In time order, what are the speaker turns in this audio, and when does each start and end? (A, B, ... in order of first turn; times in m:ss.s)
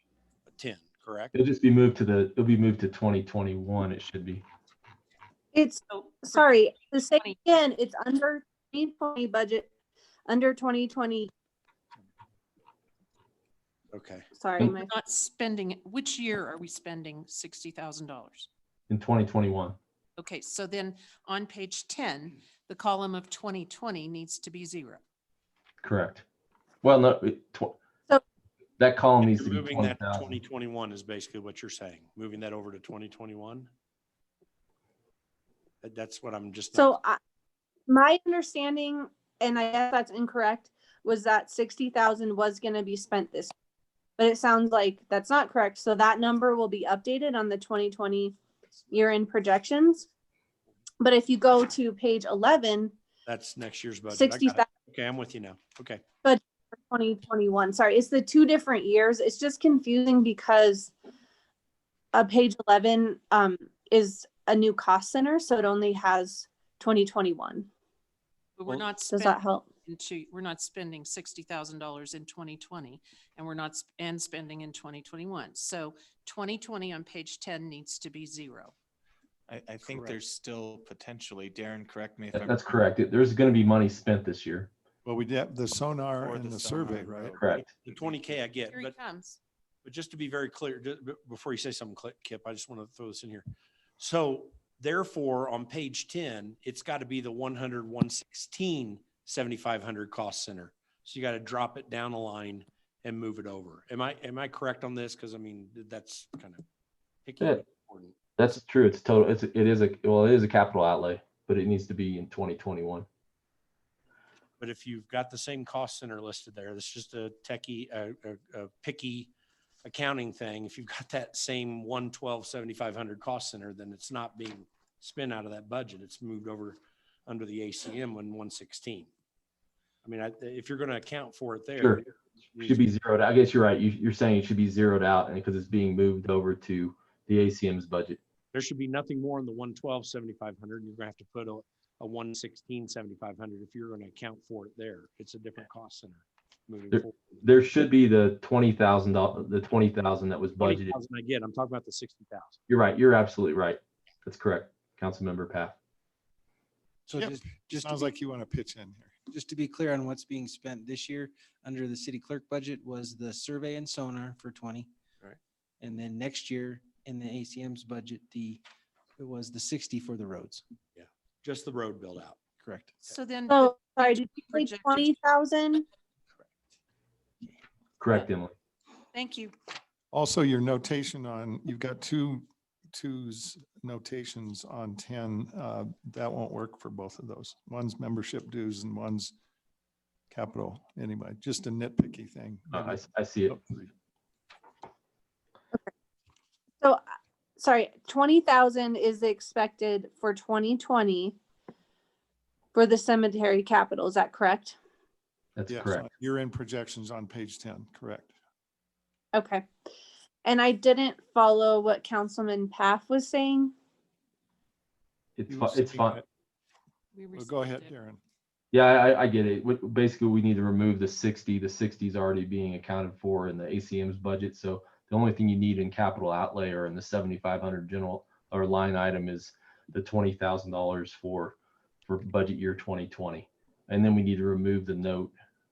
0:00.5-0:01.3 A
0:01.3-0:04.4 B
0:05.5-0:09.7 C
0:05.9-0:07.4 D
0:10.3-0:11.3 C
0:13.9-0:14.2 A
0:14.3-0:14.9 C
0:14.7-0:18.5 D
0:18.9-0:19.8 B
0:20.2-0:25.0 D
0:25.8-0:26.2 B
0:26.8-0:27.8 B
0:28.8-0:30.3 B
0:29.2-0:33.7 A
0:35.8-0:36.9 A
0:36.7-0:37.2 C
0:37.9-0:43.5 C
0:44.2-0:48.4 C
0:48.9-0:50.1 C
0:51.0-0:52.9 C
0:53.2-0:56.0 A
0:54.1-0:54.7 C
0:56.2-1:00.9 C
1:02.1-1:07.7 C
1:08.6-1:18.7 D
1:09.1-1:09.6 C
1:19.5-1:22.9 E
1:19.8-1:20.1 F
1:22.3-1:24.7 B
1:25.0-1:27.4 F
1:26.1-1:28.4 E
1:27.4-1:27.6 B
1:27.8-1:29.0 A
1:28.7-1:29.4 D
1:29.8-1:33.4 A
1:34.0-1:46.6 A
1:47.2-1:48.2 A
1:48.4-1:53.1 B
1:54.6-1:59.3 A
1:59.8-2:09.1 A
2:10.0-2:12.8 A
2:12.6-2:18.2 B
2:18.5-2:27.5 A
2:26.9-2:31.0 B
2:30.6-2:32.6 A
2:32.7-2:35.8 B
2:37.1-2:38.1 G
2:37.1-2:39.2 F
2:39.3-2:44.9 G
2:45.8-2:48.6 G
2:49.2-2:50.6 G
2:51.0-2:52.4 A
2:52.6-2:52.9 G
2:53.1-2:55.1 D
2:53.5-2:55.8 C
2:58.0-2:58.5 B
2:59.1-2:59.5 D
3:00.1-3:09.3 F
3:10.3-3:13.9 F
3:12.7-3:13.6 B
3:17.6-3:21.3 C
3:22.7-3:24.8 C
3:25.6-3:26.0 B
3:25.7-3:28.3 F
3:29.3-3:29.7 C
3:30.4-3:33.7 C
3:35.4-3:36.2 B
3:35.5-3:36.2 F
3:37.1-3:37.9 D
3:37.3-3:38.2 F
3:38.7-3:55.3 B